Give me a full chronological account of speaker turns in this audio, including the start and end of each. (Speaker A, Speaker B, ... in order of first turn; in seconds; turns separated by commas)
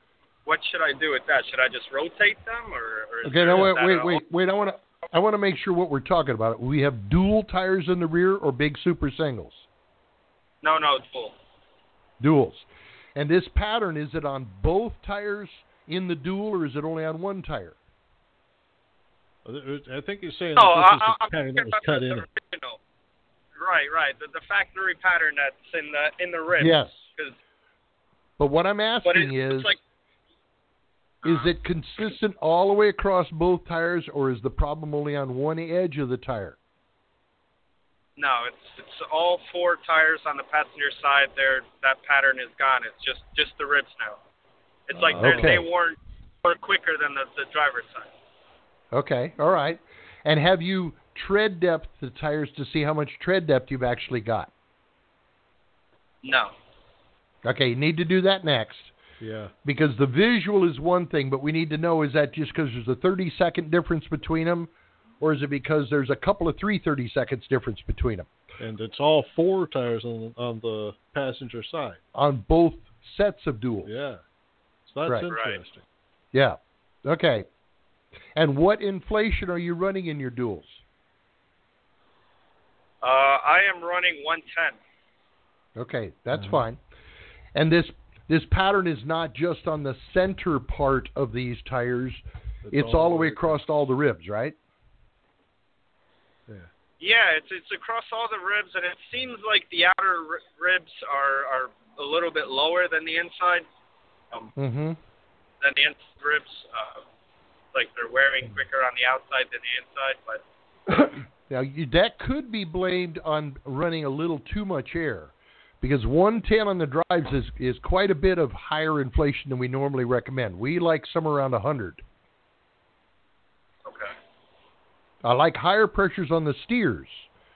Speaker A: 0.5-4.2, Speaker B: 3.2-9.7, Speaker A: 10.6-11.4, Speaker B: 12.2-17.8, Speaker C: 19.4-22.3, Speaker A: 20.6-22.8, Speaker A: 23.6-27.4, Speaker B: 26.6-27.1, Speaker B: 28.4-29.8, Speaker A: 29.0-29.8, Speaker A: 31.2-31.5, Speaker B: 31.2-36.6, Speaker A: 38.2-44.2, Speaker A: 44.9-48.1, Speaker C: 44.9-45.6, Speaker B: 45.1-45.7, Speaker B: 48.9-54.5, Speaker A: 56.2-56.5, Speaker B: 57.4-58.9, Speaker C: 59.2-59.5, Speaker B: 59.6-64.7, Speaker B: 65.2-68.3, Speaker C: 68.6-72.0, Speaker B: 72.1-73.9, Speaker C: 73.8-74.2, Speaker C: 74.8-75.8, Speaker B: 75.0-75.3, Speaker A: 75.3-75.6, Speaker B: 76.3-77.5, Speaker B: 78.3-80.8, Speaker A: 83.0-84.8, Speaker B: 85.8-86.8, Speaker B: 87.5-94.6, Speaker C: 92.7-93.6, Speaker A: 97.0-103.7, Speaker B: 104.6-105.0, Speaker A: 105.6-107.0, Speaker A: 107.7-110.4, Speaker B: 110.9-122.0, Speaker A: 123.8-124.1, Speaker B: 125.2-127.3